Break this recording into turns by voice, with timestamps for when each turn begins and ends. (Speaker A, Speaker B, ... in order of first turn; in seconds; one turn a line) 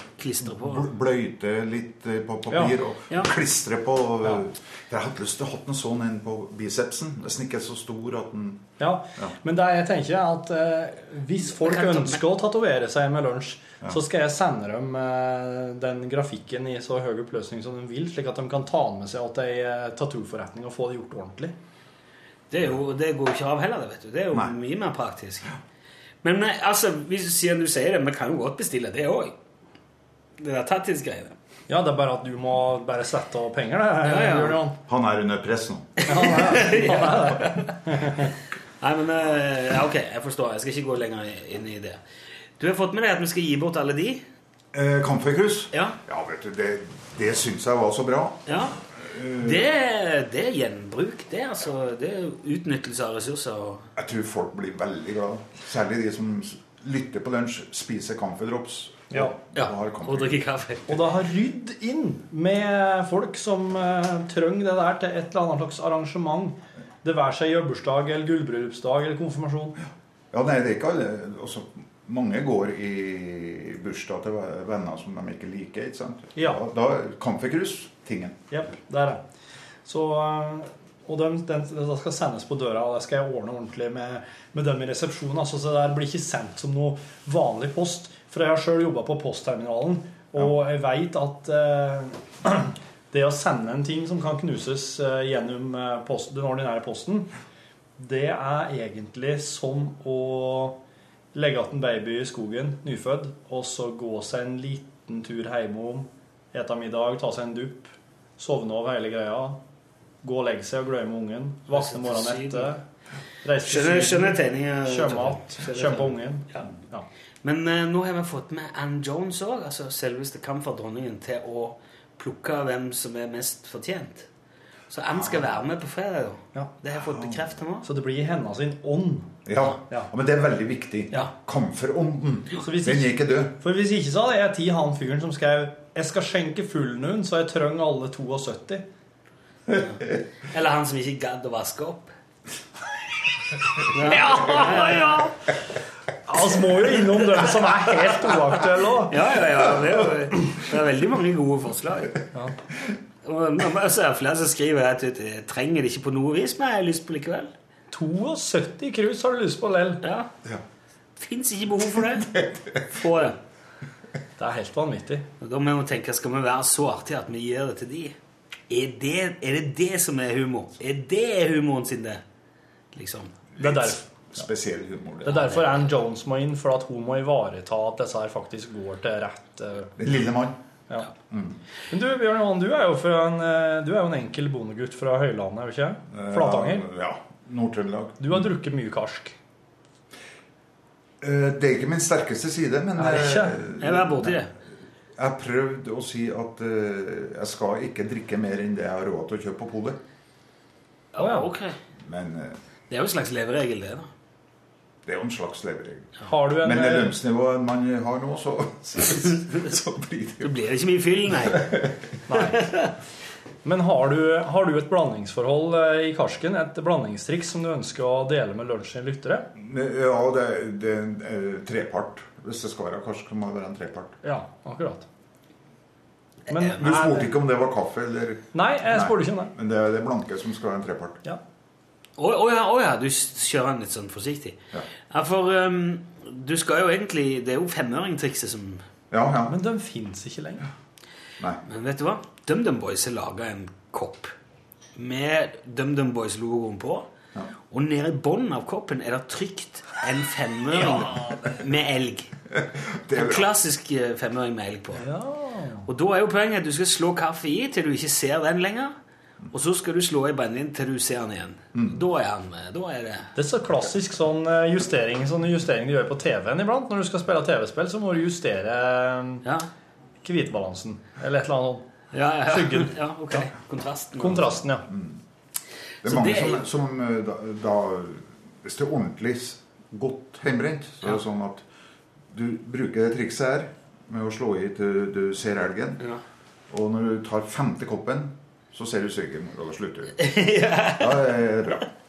Speaker A: 0.2-0.9
Speaker B: 0.4-9.3
Speaker C: 8.8-21.5
Speaker A: 11.6-12.2
Speaker A: 22.5-25.5
Speaker A: 26.2-29.3
Speaker A: 30.4-31.4
Speaker C: 31.7-34.8
Speaker A: 34.0-34.6
Speaker B: 34.9-36.0
Speaker A: 36.0-37.7
Speaker C: 36.1-38.3
Speaker A: 38.8-42.0
Speaker A: 42.6-44.2
Speaker B: 44.7-48.4
Speaker A: 45.7-46.0
Speaker A: 48.5-48.8
Speaker B: 49.1-49.7
Speaker A: 49.4-53.9
Speaker B: 54.0-60.4
Speaker A: 59.5-60.9
Speaker C: 60.9-69.8
Speaker B: 70.3-78.4
Speaker C: 76.3-76.6
Speaker C: 78.5-79.2
Speaker C: 79.8-97.3
Speaker C: 98.0-100.8
Speaker C: 101.3-109.6
Speaker C: 110.2-112.8
Speaker A: 111.7-112.7
Speaker C: 113.4-117.1
Speaker A: 113.6-116.6
Speaker A: 117.4-124.3
Speaker A: 124.9-127.8
Speaker B: 125.1-125.5
Speaker B: 127.1-127.3
Speaker C: 127.8-129.3
Speaker B: 129.4-133.6
Speaker C: 132.6-138.8
Speaker A: 140.5-142.1
Speaker A: 143.9-145.3
Speaker C: 144.2-145.3
Speaker C: 146.3-149.2
Speaker A: 149.1-152.1
Speaker A: 153.2-157.5
Speaker C: 157.9-160.0
Speaker A: 160.0-160.3
Speaker A: 161.2-162.3
Speaker B: 162.2-162.8
Speaker A: 162.9-163.4
Speaker C: 164.4-165.2
Speaker A: 165.4-168.2
Speaker A: 168.7-172.2
Speaker A: 172.9-173.4
Speaker B: 173.6-175.5
Speaker C: 173.6-174.0
Speaker C: 175.2-179.9
Speaker A: 175.2-175.7
Speaker B: 180.0-180.6
Speaker B: 181.3-181.6
Speaker C: 181.9-186.8
Speaker B: 186.1-188.5
Speaker C: 188.2-189.3
Speaker B: 191.2-194.4
Speaker C: 193.0-193.6
Speaker A: 193.8-194.5
Speaker B: 195.2-200.0
Speaker A: 201.1-201.8
Speaker C: 201.2-201.5
Speaker B: 202.1-202.6
Speaker A: 202.9-204.1
Speaker B: 205.0-210.5
Speaker C: 206.2-207.1
Speaker A: 210.4-211.7
Speaker B: 211.4-211.9
Speaker C: 212.3-212.7
Speaker A: 212.6-212.9
Speaker C: 213.6-219.5
Speaker B: 219.6-224.2
Speaker C: 224.2-225.1
Speaker C: 226.5-227.3
Speaker B: 226.6-231.2
Speaker C: 228.5-229.5
Speaker A: 232.2-238.8
Speaker B: 239.1-239.6
Speaker C: 239.5-240.6
Speaker A: 241.6-244.3
Speaker A: 244.9-247.1
Speaker A: 247.7-252.3
Speaker B: 253.0-253.5
Speaker A: 253.1-255.0
Speaker C: 254.9-255.8
Speaker A: 255.9-258.9
Speaker A: 259.5-263.3
Speaker B: 261.7-262.0
Speaker C: 263.3-269.4
Speaker C: 270.2-271.9
Speaker A: 272.1-274.6
Speaker C: 272.4-273.4
Speaker C: 274.2-274.9
Speaker B: 274.9-275.2
Speaker B: 276.0-281.6
Speaker A: 276.0-276.7
Speaker B: 282.3-286.0
Speaker B: 286.7-290.2
Speaker A: 290.2-291.3
Speaker B: 291.0-291.8